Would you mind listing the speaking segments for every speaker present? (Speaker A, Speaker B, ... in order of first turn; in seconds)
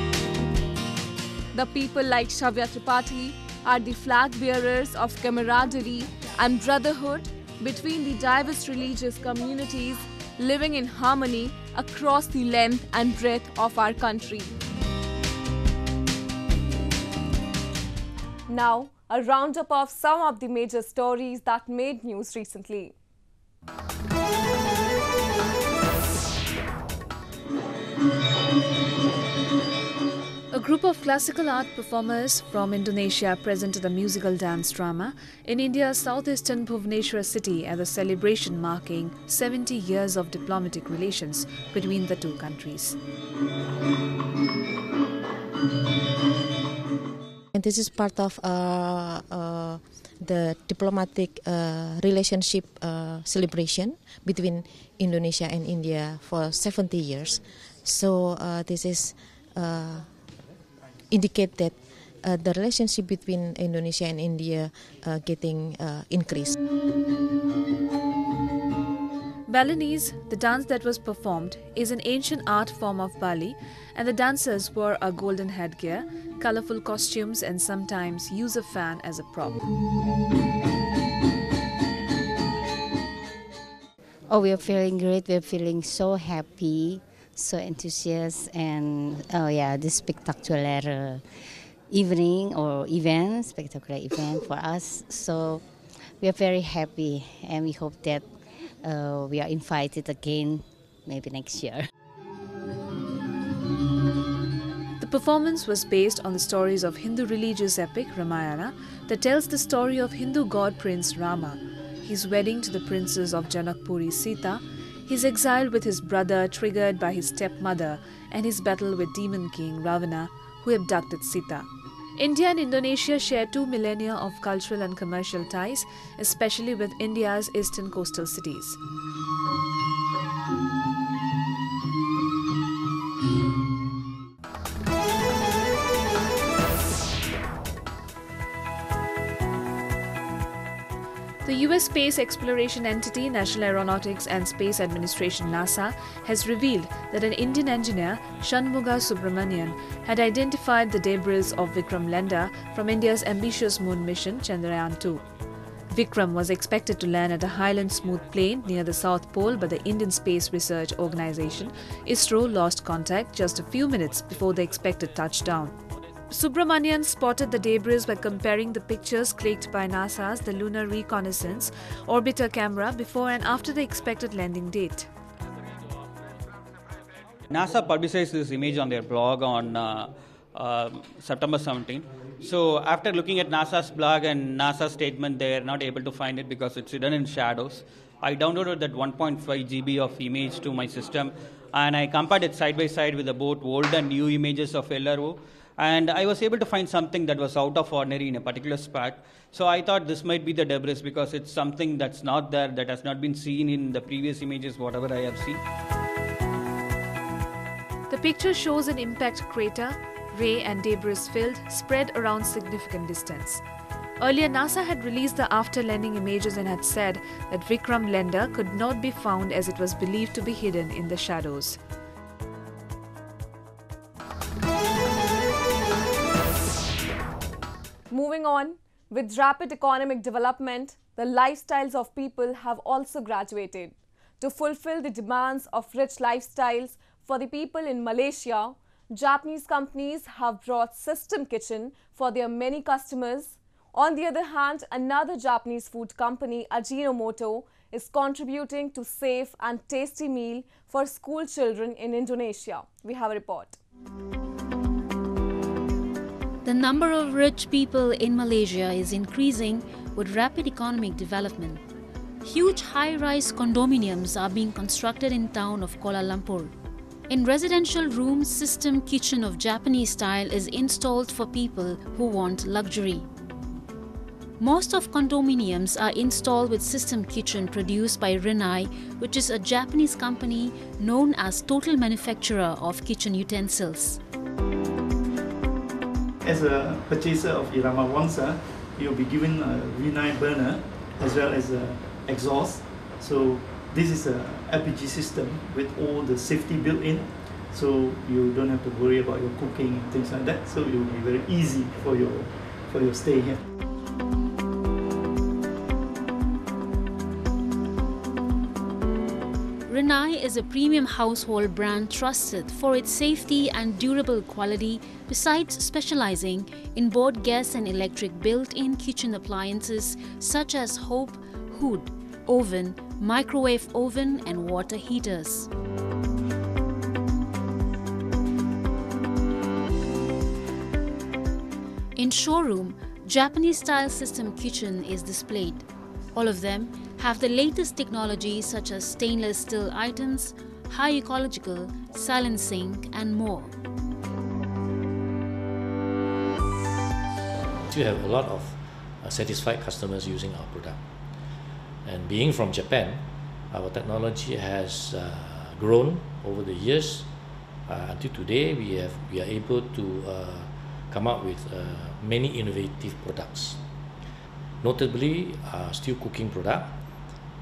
Speaker A: 1.5-14.6
Speaker B: 18.5-22.9, 228.1-253.8
Speaker C: 30.5-43.0, 69.5-79.6, 105.0-128.8, 141.4-155.2, 155.9-165.7, 166.3-175.1, 208.1-213.6, 214.2-221.8
Speaker D: 47.5-60.1, 61.1-66.5
Speaker E: 84.3-98.3, 98.8-101.9
Speaker F: 177.5-205.6
Speaker G: 256.6-261.8, 262.4-266.7, 267.3-273.3, 274.6-284.2, 309.9-325.7, 332.2-343.7
Speaker H: 286.4-303.6
Speaker I: 347.8-351.0, 352.1-357.3, 357.9-363.8, 364.8-367.0